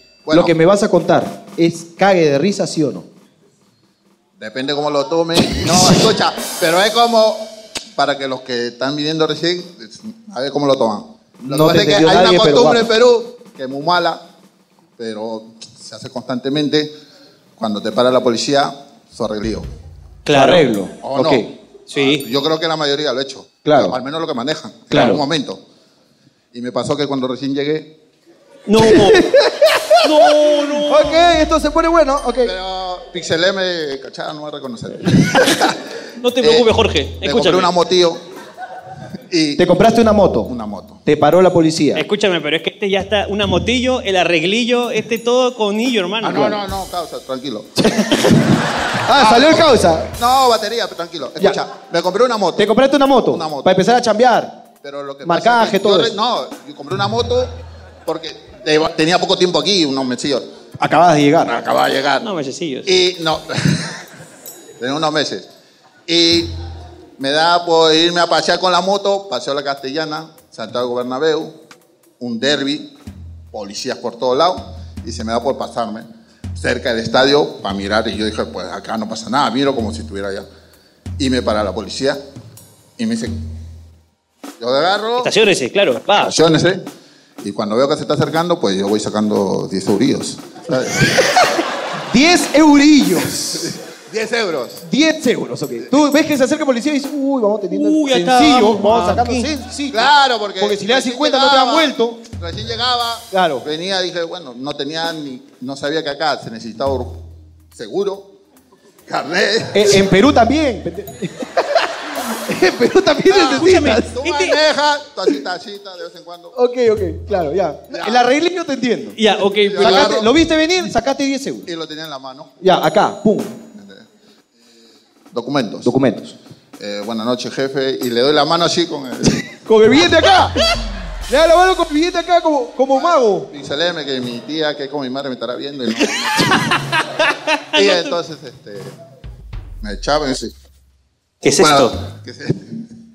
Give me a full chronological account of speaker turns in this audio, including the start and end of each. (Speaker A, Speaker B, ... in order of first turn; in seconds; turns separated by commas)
Speaker A: 0.3-0.6, Speaker B: 0.3-3.1, Speaker A: 4.4-14.2, Speaker B: 5.6-6.1, Speaker B: 11.4-12.9, Speaker A: 15.0-16.9, Speaker A: 17.6-19.7, Speaker C: 20.3-20.7, Speaker B: 20.3-21.5, Speaker A: 21.0-25.6, Speaker C: 21.9-22.2, Speaker B: 23.6-24.0, Speaker C: 24.9-25.2, Speaker A: 26.5-27.9, Speaker C: 28.7-29.3, Speaker B: 28.8-32.5, Speaker C: 30.0-31.4, Speaker A: 32.4-35.8, Speaker C: 36.2-37.7, Speaker A: 36.4-38.2, Speaker A: 39.3-39.7, Speaker B: 39.6-40.5, Speaker A: 40.5-41.0, Speaker B: 41.0-42.1, Speaker C: 42.0-46.6, Speaker A: 46.2-47.7, Speaker B: 47.8-48.4, Speaker B: 49.0-50.1, Speaker A: 49.1-52.7, Speaker B: 52.6-54.6, Speaker A: 53.2-53.7, Speaker A: 54.8-57.5, Speaker B: 55.2-56.1, Speaker A: 58.1-60.5, Speaker B: 60.8-61.6, Speaker A: 61.5-62.3, Speaker C: 62.2-62.9, Speaker A: 62.9-64.0, Speaker A: 64.8-65.5, Speaker A: 66.1-66.5, Speaker A: 67.2-71.6, Speaker A: 72.2-72.9, Speaker A: 73.5-80.5, Speaker A: 81.2-82.2, Speaker A: 83.0-83.4, Speaker A: 84.6-85.3, Speaker C: 85.2-86.3, Speaker A: 86.2-86.8, Speaker A: 87.4-91.2, Speaker B: 92.1-93.7, Speaker A: 93.6-94.8, Speaker B: 94.8-102.2, Speaker C: 97.7-99.5, Speaker A: 99.9-107.2, Speaker B: 103.3-103.7, Speaker A: 107.7-108.3, Speaker A: 109.1-110.0, Speaker B: 109.7-114.2, Speaker A: 113.3-116.5, Speaker C: 113.4-114.6, Speaker B: 116.5-119.2, Speaker A: 117.9-118.3, Speaker C: 119.2-120.2, Speaker A: 119.7-120.3, Speaker B: 119.8-121.7, Speaker A: 121.7-122.6, Speaker B: 122.6-123.6, Speaker A: 123.7-124.1, Speaker A: 125.3-125.9, Speaker B: 125.8-126.3, Speaker A: 126.8-129.5, Speaker B: 129.7-130.6, Speaker B: 131.3-133.5, Speaker A: 132.9-136.8, Speaker C: 137.7-138.1, Speaker A: 137.8-138.9, Speaker A: 139.8-140.5, Speaker C: 141.4-142.0, Speaker A: 141.5-142.8